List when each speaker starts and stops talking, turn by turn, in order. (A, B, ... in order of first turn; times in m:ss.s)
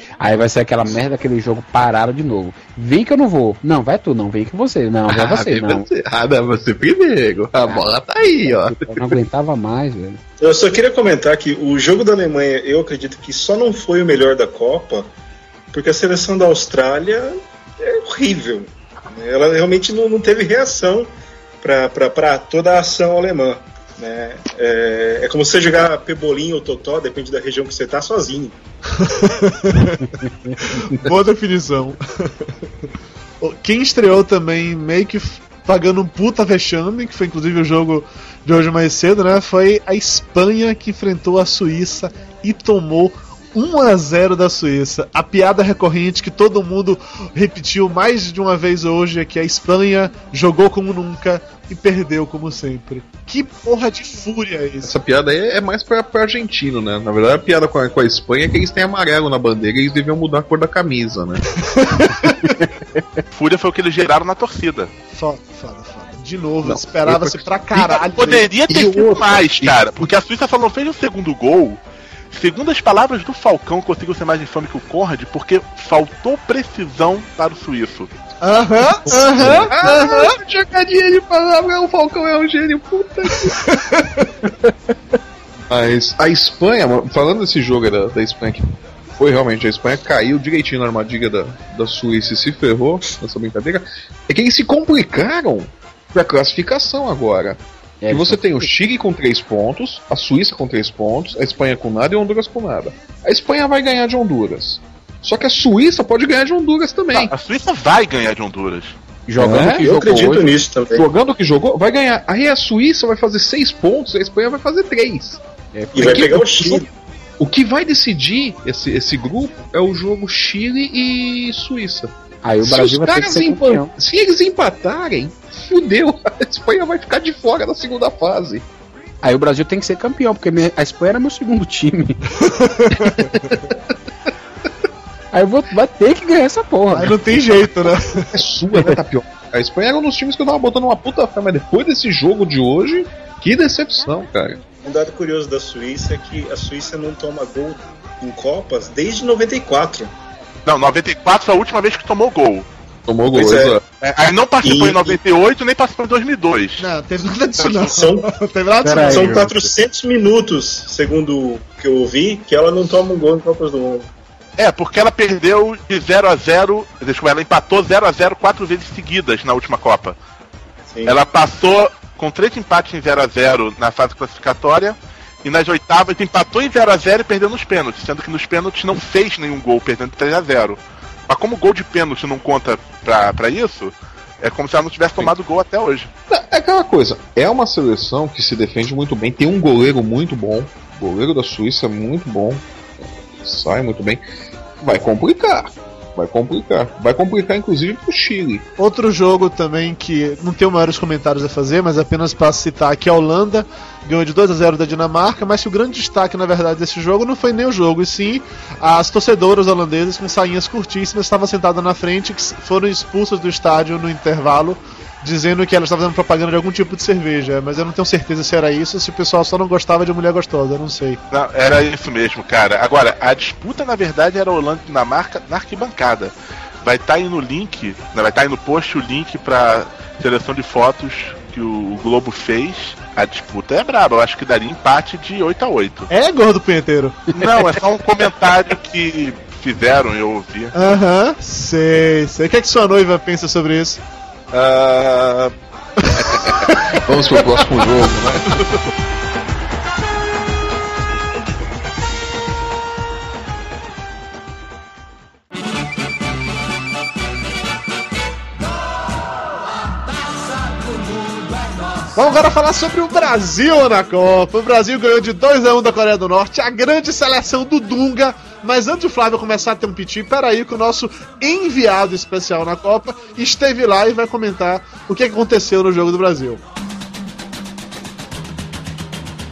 0:00.2-0:05.9 A
0:05.1-0:09.2 B
0:07.7-0:10.2 A
0:10.4-0:15.1 C
0:15.7-0:21.1 C
0:21.6-0:28.6 C
0:29.0-0:32.3 D
0:33.4-0:54.9 D
0:54.8-1:01.4 B
1:01.6-1:02.7 D
1:03.3-1:04.9 E
1:05.1-1:08.5 D
1:06.6-1:07.5 B
1:07.7-1:11.8 E
1:08.7-1:09.8 B
1:12.3-1:18.1 E
1:18.4-1:20.4 D
1:19.0-1:23.6 B
1:23.5-1:24.3 D
1:25.7-1:47.3 B
1:38.0-1:38.7 A
1:47.1-1:49.0 E
1:49.3-1:50.5 A
1:49.4-1:49.9 B
1:49.8-1:51.0 C
1:50.9-1:55.4 B
1:55.7-1:56.4 A
1:55.9-1:56.9 C
1:56.0-1:56.8 B
1:57.4-2:08.6 B
2:02.4-2:03.9 A
2:09.2-2:12.3 A
2:12.4-2:13.6 D
2:13.1-2:13.7 B
2:15.3-2:17.2 A
2:16.9-2:18.3 D
2:18.3-2:24.6 B
2:24.8-2:30.1 C
2:30.7-2:32.7 E
2:33.1-2:33.8 B
2:33.3-2:33.8 C
2:34.0-2:36.9 E
2:34.6-2:35.2 C
2:36.8-2:39.5 D
2:37.7-2:38.3 C
2:38.8-2:39.7 A
2:39.0-2:44.1 C
2:44.6-2:50.2 E
2:51.1-3:06.1 E
3:06.3-3:12.6 B
3:13.3-3:14.2 B
3:14.8-3:18.7 B
3:18.8-3:41.2 D
3:41.3-3:56.1 E
3:56.1-3:57.5 D
3:57.3-4:00.7 E
4:00.8-4:04.0 D
4:04.5-4:05.5 E
4:06.0-4:07.0 D
4:06.2-4:08.6 B
4:22.2-4:36.6 D